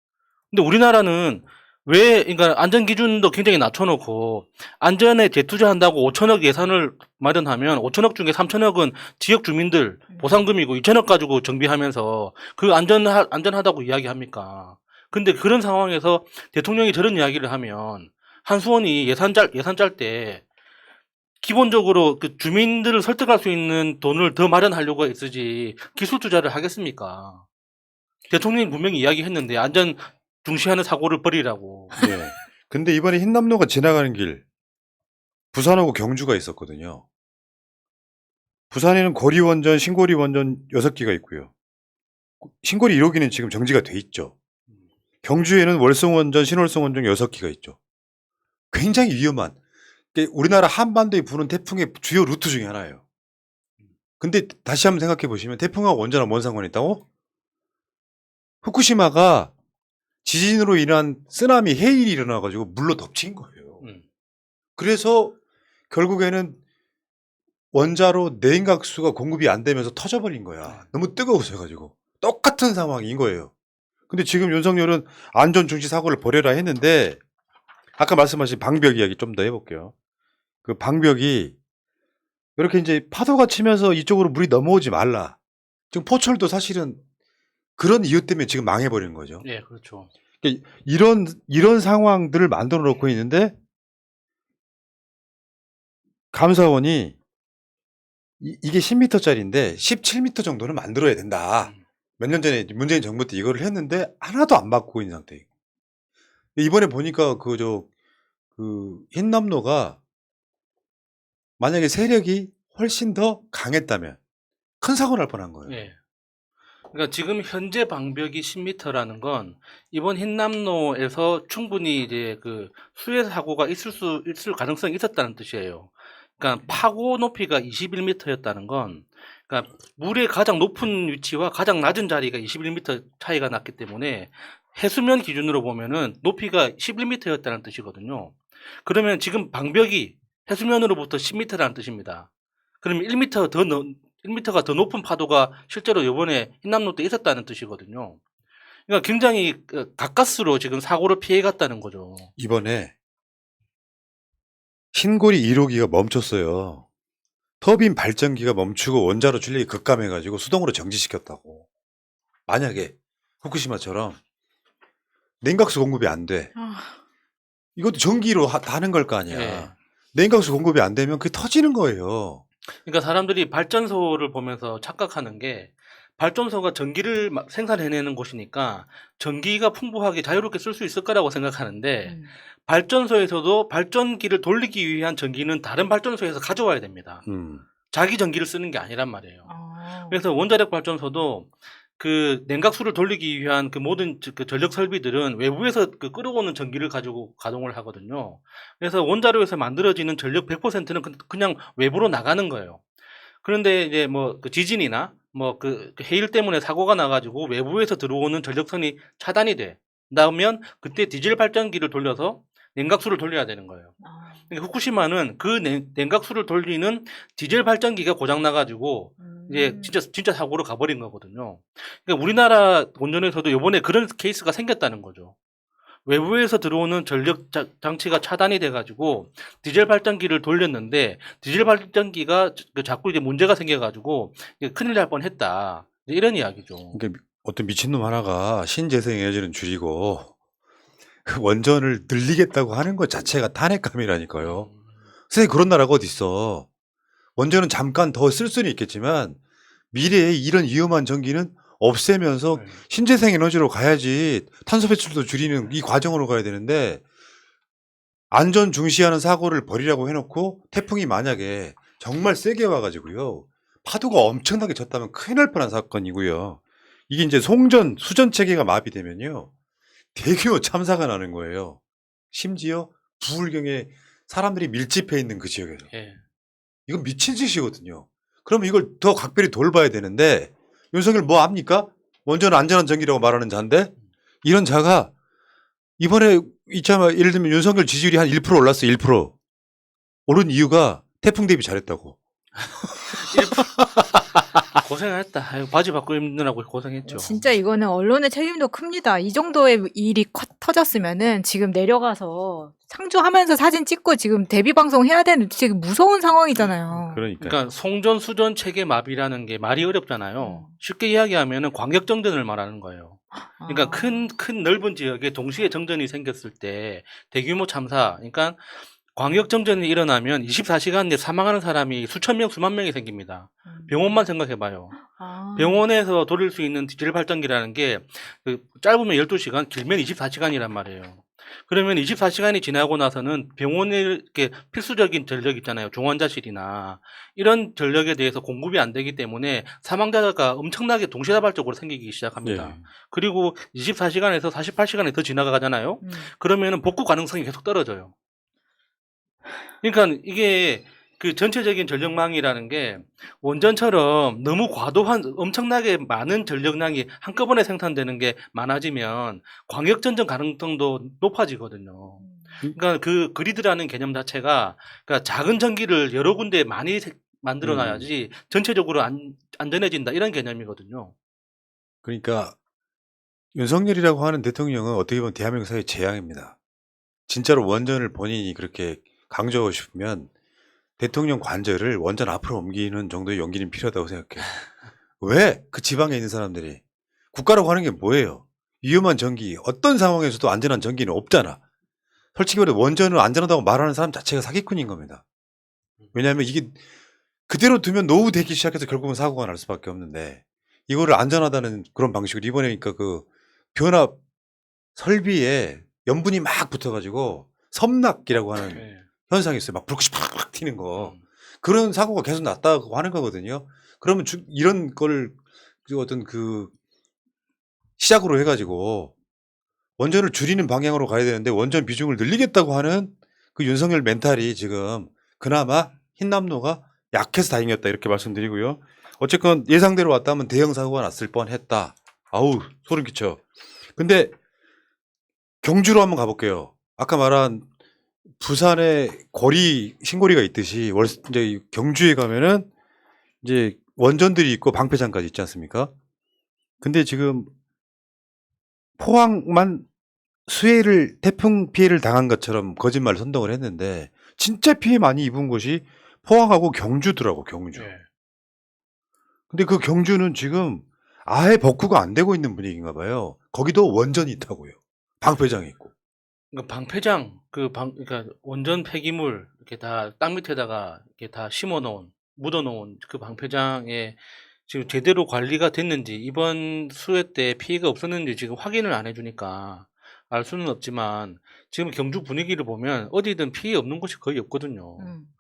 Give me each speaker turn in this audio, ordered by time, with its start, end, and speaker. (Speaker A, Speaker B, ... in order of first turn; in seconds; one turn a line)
Speaker A: 0.5-20.4
Speaker B: 10.1-10.4
Speaker A: 21.4-27.4
Speaker A: 28.3-32.1
Speaker C: 31.9-34.4
Speaker C: 35.5-37.0
Speaker C: 38.7-41.5
Speaker C: 42.4-44.4
Speaker C: 45.2-47.8
Speaker C: 48.7-49.6
Speaker C: 50.1-53.0
Speaker C: 54.2-57.0
Speaker C: 58.6-59.5
Speaker C: 60.2-63.8
Speaker C: 64.8-65.4
Speaker C: 65.9-66.6
Speaker C: 67.7-73.5
Speaker C: 74.1-77.2
Speaker C: 78.0-79.9
Speaker C: 80.7-81.5
Speaker C: 82.6-85.4
Speaker C: 85.9-87.0
Speaker C: 87.8-89.5
Speaker A: 89.4-90.1
Speaker C: 90.4-93.6
Speaker C: 96.3-97.2
Speaker C: 98.4-105.4
Speaker C: 106.6-107.9
Speaker C: 108.5-110.0
Speaker C: 111.6-114.2
Speaker C: 114.8-115.8
Speaker A: 115.7-116.0
Speaker A: 116.9-142.3
Speaker A: 142.8-148.2
Speaker A: 148.9-152.3
Speaker C: 152.4-152.9
Speaker C: 154.9-156.8
Speaker C: 157.6-161.7
Speaker C: 162.5-164.2
Speaker C: 165.4-166.5
Speaker B: 166.6-167.0
Speaker C: 167.8-172.4
Speaker A: 169.3-169.7
Speaker A: 172.8-187.2
Speaker B: 182.1-182.3
Speaker C: 187.2-187.7
Speaker A: 187.9-189.5
Speaker B: 189.5-190.2
Speaker A: 190.1-202.8
Speaker A: 203.4-214.0
Speaker B: 214.0-214.4
Speaker A: 214.5-225.3
Speaker B: 219.2-219.9
Speaker A: 226.1-237.0
Speaker C: 236.9-240.3
Speaker C: 241.2-244.7
Speaker A: 244.4-244.8
Speaker C: 245.3-246.7
Speaker C: 247.4-249.4
Speaker C: 249.9-257.0
Speaker A: 252.5-252.8
Speaker C: 258.3-269.5
Speaker C: 270.1-271.8
Speaker C: 272.3-275.9
Speaker A: 275.9-276.2
Speaker C: 276.9-283.9
Speaker C: 284.4-285.1
Speaker C: 286.0-289.3
Speaker C: 290.3-292.2
Speaker A: 293.2-293.8
Speaker A: 294.8-297.4
Speaker B: 297.1-307.2
Speaker C: 306.9-307.6
Speaker A: 307.4-348.1
Speaker B: 310.4-310.7
Speaker B: 313.4-314.2
Speaker B: 323.7-323.9
Speaker B: 325.0-325.8
Speaker C: 342.4-342.8
Speaker B: 346.0-346.3
Speaker A: 349.8-371.1
Speaker B: 362.2-362.6
Speaker C: 367.6-368.1
Speaker C: 372.1-372.6
Speaker C: 373.5-376.6
Speaker C: 377.3-380.3
Speaker C: 381.0-384.5
Speaker C: 385.2-386.8
Speaker C: 387.3-391.6
Speaker C: 392.4-395.2
Speaker C: 396.1-396.8
Speaker C: 397.5-404.2
Speaker C: 405.0-415.4
Speaker A: 408.7-409.0
Speaker C: 415.9-416.7
Speaker C: 418.0-419.1
Speaker C: 420.0-433.4
Speaker C: 434.0-434.3
Speaker C: 435.6-437.7
Speaker C: 438.4-442.7
Speaker C: 443.4-445.9
Speaker C: 446.8-447.5
Speaker C: 449.0-449.9
Speaker C: 450.5-457.9
Speaker A: 457.7-458.1
Speaker C: 459.5-465.9
Speaker A: 466.5-485.1
Speaker B: 485.0-485.3